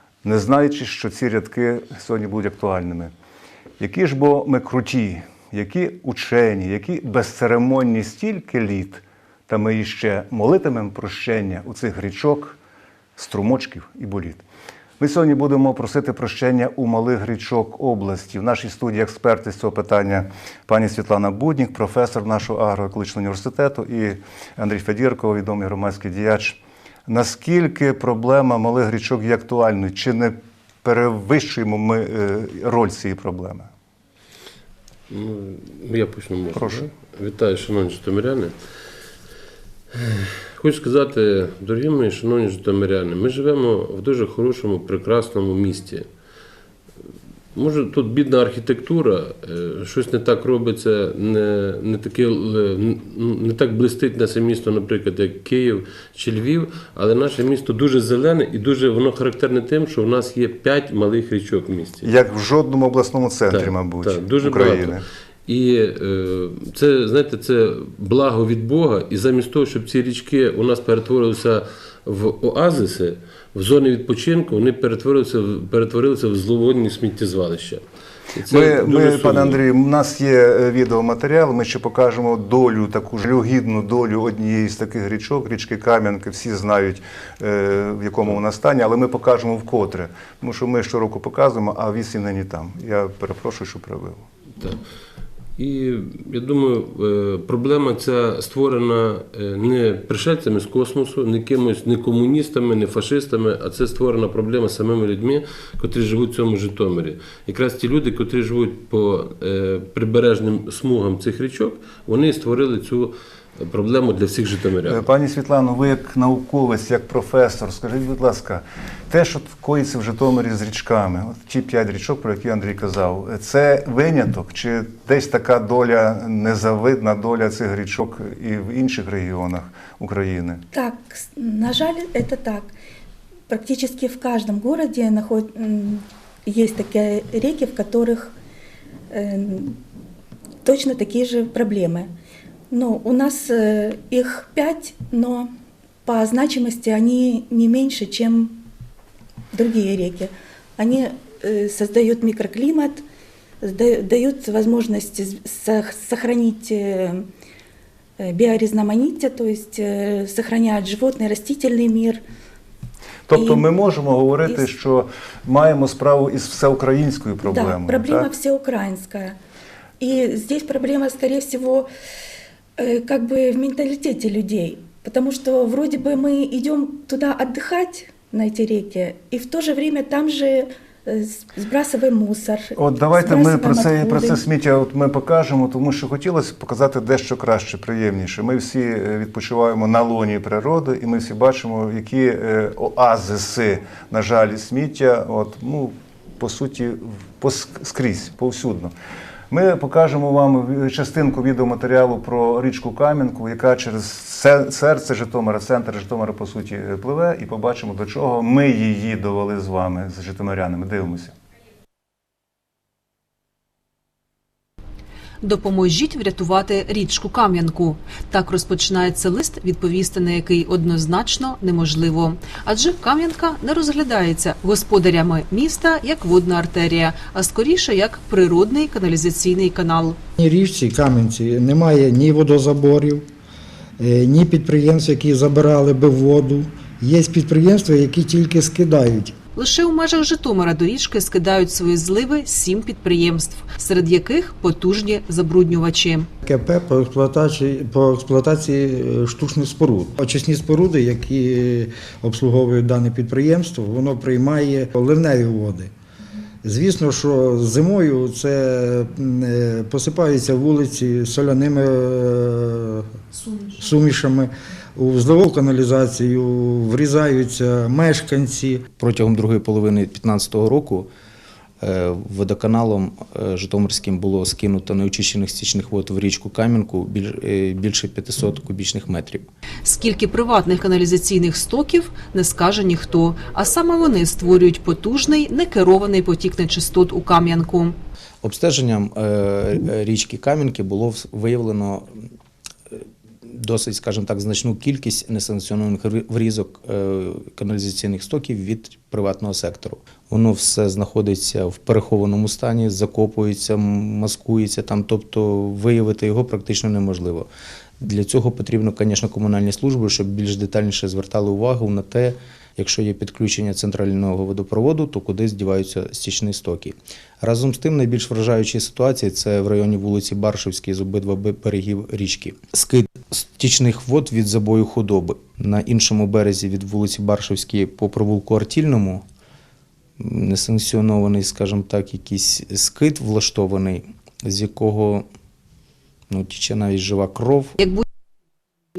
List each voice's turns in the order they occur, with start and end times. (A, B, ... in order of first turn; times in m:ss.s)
0:00.2-0:03.1 A
0:03.8-0:12.6 A
0:13.2-0:14.4 A
0:15.0-0:33.7 A
0:35.1-0:38.6 B
0:36.5-0:36.8 A
0:39.9-0:46.1 B
0:47.6-1:02.1 B
1:02.0-1:05.0 A
1:03.5-1:17.8 B
1:18.4-1:19.6 B
1:18.5-1:34.2 A
1:35.6-1:55.1 B
1:54.9-2:10.6 A
2:10.7-2:12.7 C
2:13.5-2:18.3 C
2:19.1-2:19.8 C
2:20.6-2:22.1 C
2:22.7-2:25.5 C
2:26.0-2:28.6 C
2:29.5-2:33.0 C
2:33.6-2:37.3 C
2:38.2-2:42.2 C
2:43.3-2:48.3 A
2:43.3-2:43.7 C
2:47.5-2:49.4 C
2:50.0-2:51.9 C
2:52.8-3:04.4 C
3:02.8-3:18.9 A
3:19.5-3:31.3 A
3:35.4-3:50.2 D
3:50.4-3:53.3 E
3:54.0-3:59.4 E
3:59.6-4:06.3 D
4:06.4-4:15.9 E
4:16.6-4:28.9 E
4:29.0-4:31.1 F
4:31.8-4:39.5 F
4:39.8-4:48.0 D
4:48.4-4:52.1 F
4:52.9-5:07.5 F
5:08.0-5:29.2 F
5:30.2-5:35.3 F
5:36.3-5:37.8 F